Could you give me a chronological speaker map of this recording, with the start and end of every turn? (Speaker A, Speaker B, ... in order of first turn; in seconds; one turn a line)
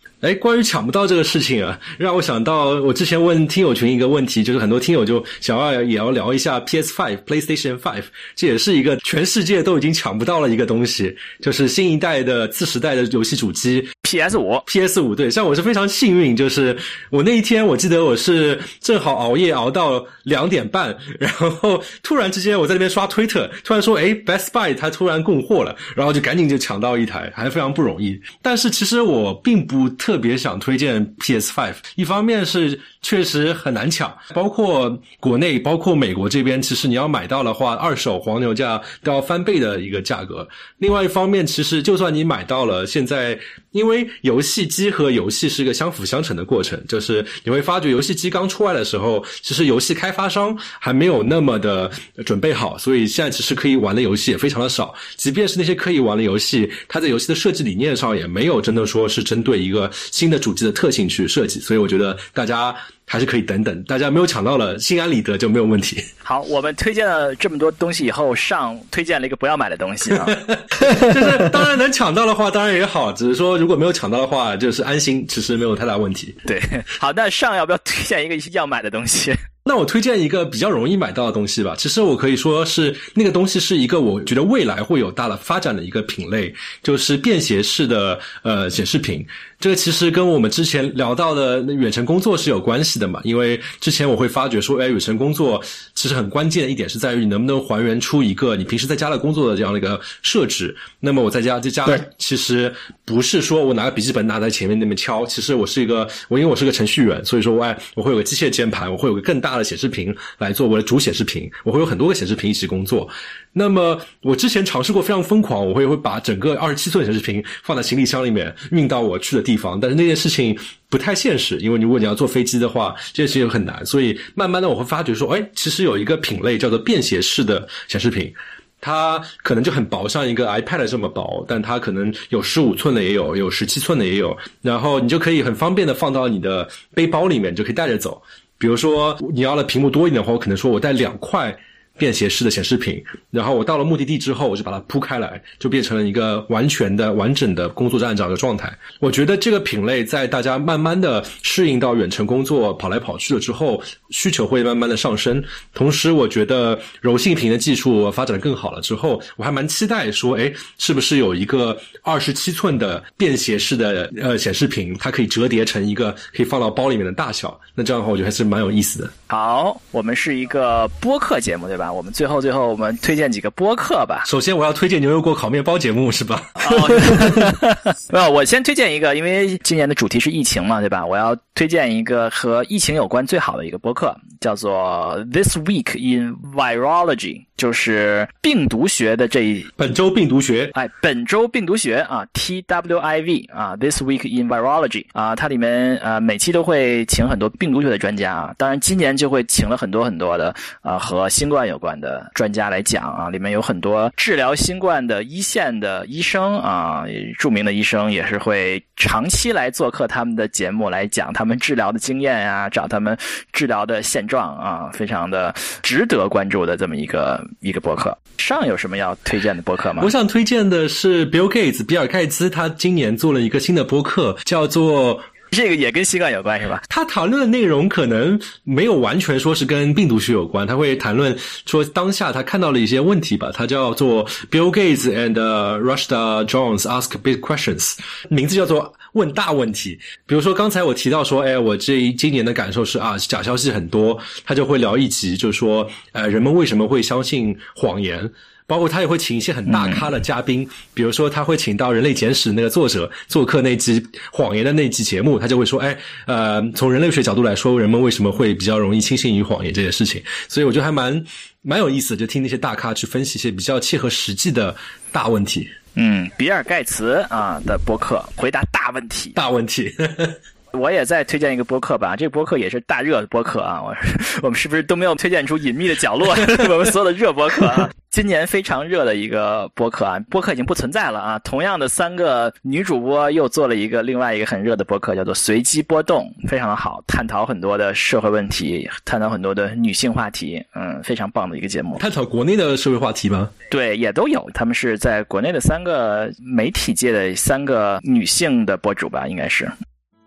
Speaker A: 0.2-13.9
Speaker B: 14.0-14.7
Speaker A: 14.7-66.1
Speaker B: 66.2-70.4
Speaker A: 70.3-76.4
Speaker B: 76.5-79.4
Speaker A: 79.6-169.1
Speaker B: 169.3-174.3
Speaker A: 174.2-177.5
Speaker B: 176.6-189.7
Speaker A: 189.8-190.7
Speaker B: 190.7-220.1
Speaker A: 220.0-225.2
Speaker B: 225.5-226.8
Speaker A: 226.9-265.7
Speaker B: 249.7-250.1
Speaker B: 265.9-269.4
Speaker A: 269.4-270.4
Speaker B: 270.7-292.0
Speaker A: 292.0-293.5
Speaker B: 293.7-299.7